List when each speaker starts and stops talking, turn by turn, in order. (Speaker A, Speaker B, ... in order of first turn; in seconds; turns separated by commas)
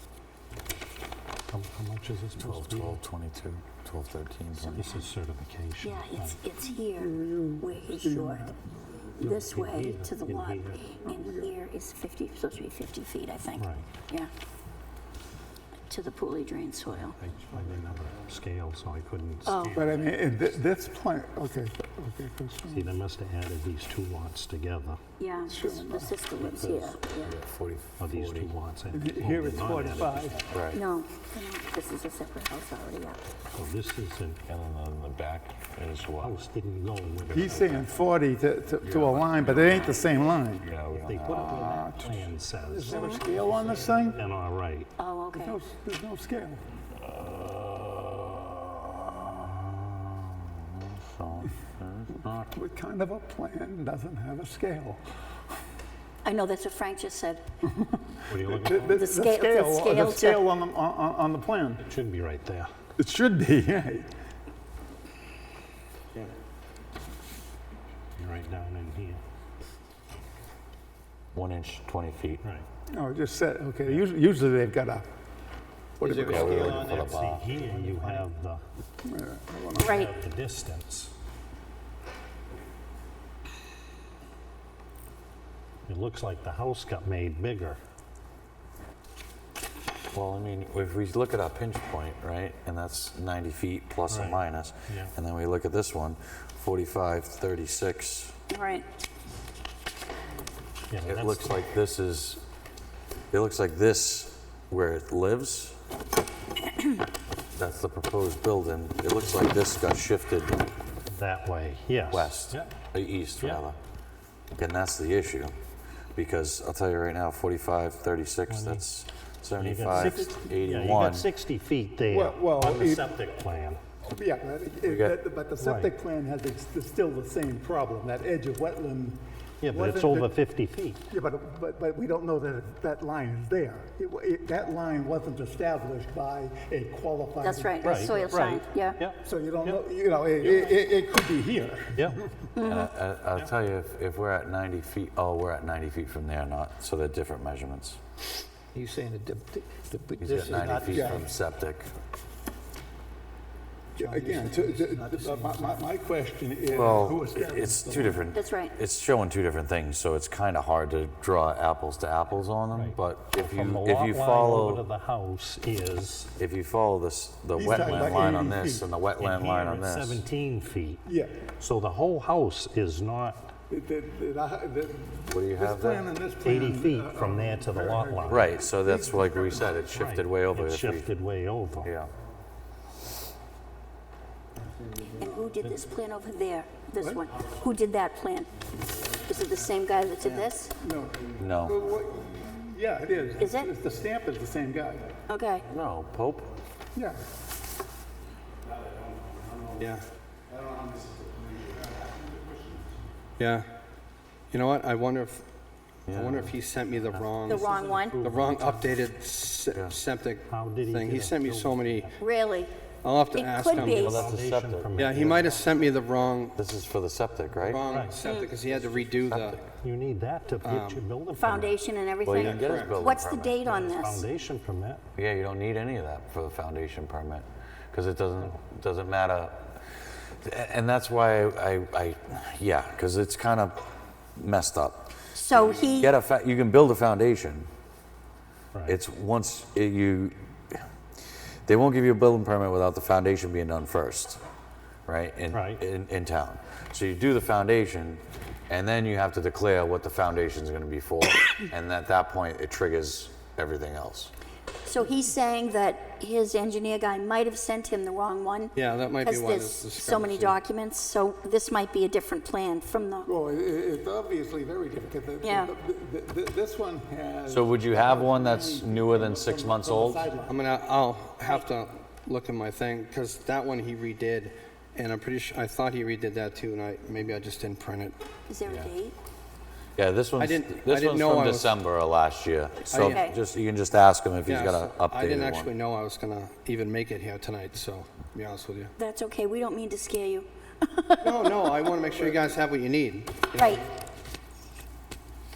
Speaker A: 1.5-3.0, Speaker B: 2.4-4.9, Speaker C: 4.5-4.9, Speaker A: 4.8-6.4, Speaker C: 5.8-8.5, Speaker D: 7.0-8.5, Speaker C: 9.2-14.3, Speaker A: 9.2-10.9, Speaker D: 11.1-11.5, Speaker A: 13.5-13.9, Speaker C: 15.9-17.1, Speaker A: 17.1-20.1, Speaker C: 19.4-19.7, Speaker D: 19.7-22.9, Speaker A: 22.7-25.0, Speaker C: 25.2-27.3, Speaker D: 25.5-26.2, Speaker A: 26.3-27.2, Speaker B: 27.2-28.5, Speaker A: 28.0-30.4, Speaker D: 28.9-30.4, Speaker B: 30.5-30.8, Speaker C: 30.7-33.2, Speaker A: 33.5-34.4, Speaker B: 34.5-36.3, Speaker A: 36.2-37.9, Speaker D: 37.3-40.7, Speaker B: 38.8-41.9, Speaker A: 40.8-44.9, Speaker D: 41.5-44.2, Speaker C: 42.9-43.2, Speaker C: 45.0-45.6, Speaker D: 45.3-46.6, Speaker B: 49.0-52.5, Speaker D: 52.4-55.0, Speaker C: 56.2-57.4, Speaker D: 57.8-61.8, Speaker A: 58.3-59.1, Speaker C: 58.9-60.4, Speaker A: 61.9-62.7, Speaker D: 63.0-64.1, Speaker A: 68.2-69.2, Speaker B: 71.3-72.4, Speaker D: 72.9-75.0, Speaker D: 76.0-77.0, Speaker E: 76.0-76.9, Speaker B: 76.2-77.5, Speaker A: 76.5-78.6, Speaker D: 79.0-80.0, Speaker A: 79.8-81.1, Speaker C: 79.8-80.1, Speaker A: 85.9-87.8, Speaker B: 90.1-98.3, Speaker A: 94.1-95.1, Speaker C: 98.5-98.8, Speaker A: 100.9-101.6, Speaker B: 101.0-102.4, Speaker B: 103.3-105.8, Speaker B: 107.5-110.6, Speaker A: 111.1-112.7, Speaker B: 112.1-113.8, Speaker B: 114.6-115.5, Speaker B: 116.1-121.3, Speaker A: 118.5-118.9, Speaker A: 119.5-123.8, Speaker D: 119.9-120.5, Speaker D: 122.1-123.1, Speaker D: 124.0-130.3, Speaker B: 124.8-125.1, Speaker A: 125.6-125.9, Speaker A: 129.6-131.0, Speaker D: 131.1-138.5, Speaker C: 137.4-139.0, Speaker A: 137.8-139.8, Speaker D: 139.2-142.5, Speaker A: 140.4-140.7, Speaker C: 142.5-142.9, Speaker B: 142.6-148.0, Speaker F: 148.7-151.2, Speaker B: 150.2-151.9, Speaker D: 150.8-151.3, Speaker D: 153.9-158.3, Speaker F: 154.0-155.8, Speaker B: 156.7-164.8, Speaker C: 158.3-158.8, Speaker A: 162.7-166.3, Speaker B: 166.4-170.2, Speaker D: 167.5-168.9, Speaker A: 169.2-171.0, Speaker D: 171.1-171.4, Speaker A: 171.6-173.5, Speaker D: 173.7-179.8, Speaker B: 175.3-176.1, Speaker A: 176.4-178.5, Speaker B: 178.3-181.1, Speaker A: 179.9-182.0, Speaker B: 181.8-182.1, Speaker C: 185.1-188.5, Speaker D: 187.0-187.3, Speaker C: 189.1-190.7, Speaker D: 190.8-195.1, Speaker B: 191.4-191.8, Speaker C: 193.4-193.7, Speaker C: 195.3-195.7, Speaker B: 195.7-196.5, Speaker D: 196.9-197.2, Speaker E: 199.7-200.0, Speaker E: 203.4-203.6, Speaker E: 204.5-205.4, Speaker B: 206.1-206.5, Speaker E: 206.1-212.1, Speaker A: 207.1-209.0, Speaker C: 207.4-208.2, Speaker B: 209.7-210.0, Speaker A: 210.5-212.1, Speaker C: 212.2-212.7, Speaker E: 213.0-214.3, Speaker C: 213.3-214.2, Speaker A: 213.7-215.6, Speaker B: 213.7-215.5, Speaker E: 214.9-216.6, Speaker B: 216.4-217.9, Speaker E: 217.6-219.6, Speaker A: 217.9-218.2, Speaker C: 218.2-218.5, Speaker B: 218.7-219.7, Speaker A: 219.8-221.8, Speaker E: 220.6-221.0, Speaker C: 221.3-224.2, Speaker B: 222.2-223.6, Speaker E: 222.3-223.0, Speaker A: 223.6-225.0, Speaker B: 225.2-233.8, Speaker B: 234.4-237.7, Speaker C: 235.3-236.1, Speaker A: 238.7-239.0, Speaker B: 238.9-240.8, Speaker B: 241.7-244.4, Speaker B: 245.1-254.3, Speaker A: 245.5-245.8, Speaker C: 254.8-263.3, Speaker E: 258.7-260.6, Speaker D: 263.2-270.6, Speaker C: 265.4-265.7, Speaker B: 267.5-270.3, Speaker E: 270.4-278.2, Speaker C: 278.5-279.1, Speaker B: 278.6-278.9, Speaker B: 280.0-285.7, Speaker E: 280.4-281.8, Speaker E: 282.9-283.2, Speaker C: 283.0-283.4, Speaker E: 284.4-288.9, Speaker C: 288.9-291.7, Speaker E: 291.2-293.7, Speaker C: 293.5-293.8